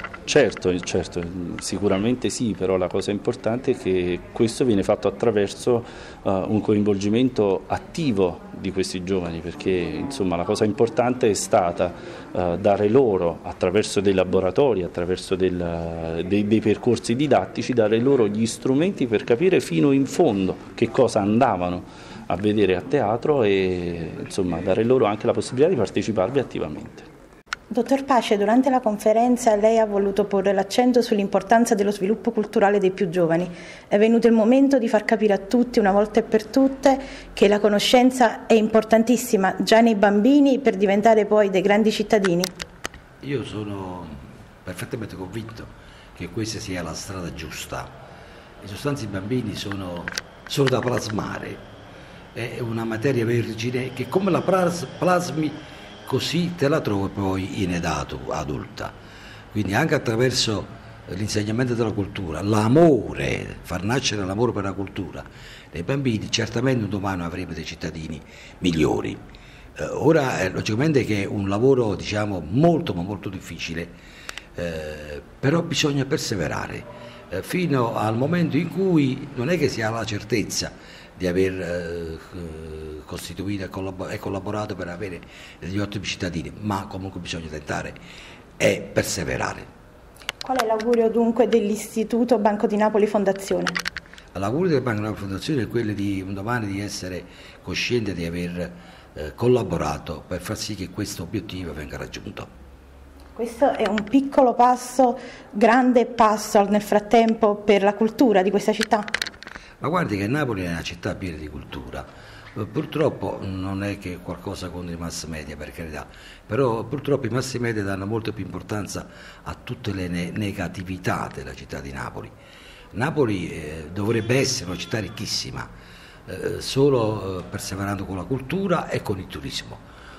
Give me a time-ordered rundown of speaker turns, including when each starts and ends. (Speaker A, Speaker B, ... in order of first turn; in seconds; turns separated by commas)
Speaker A: 0.3-27.1, Speaker B: 27.7-42.5, Speaker C: 43.2-47.9, Speaker C: 48.6-51.6, Speaker C: 52.3-58.9, Speaker C: 59.5-69.2, Speaker C: 69.8-73.9, Speaker C: 74.5-88.0, Speaker C: 88.6-89.7, Speaker B: 90.4-93.8, Speaker C: 94.3-102.5, Speaker B: 103.3-109.1, Speaker C: 109.8-122.3, Speaker C: 122.9-125.7, Speaker C: 126.3-129.8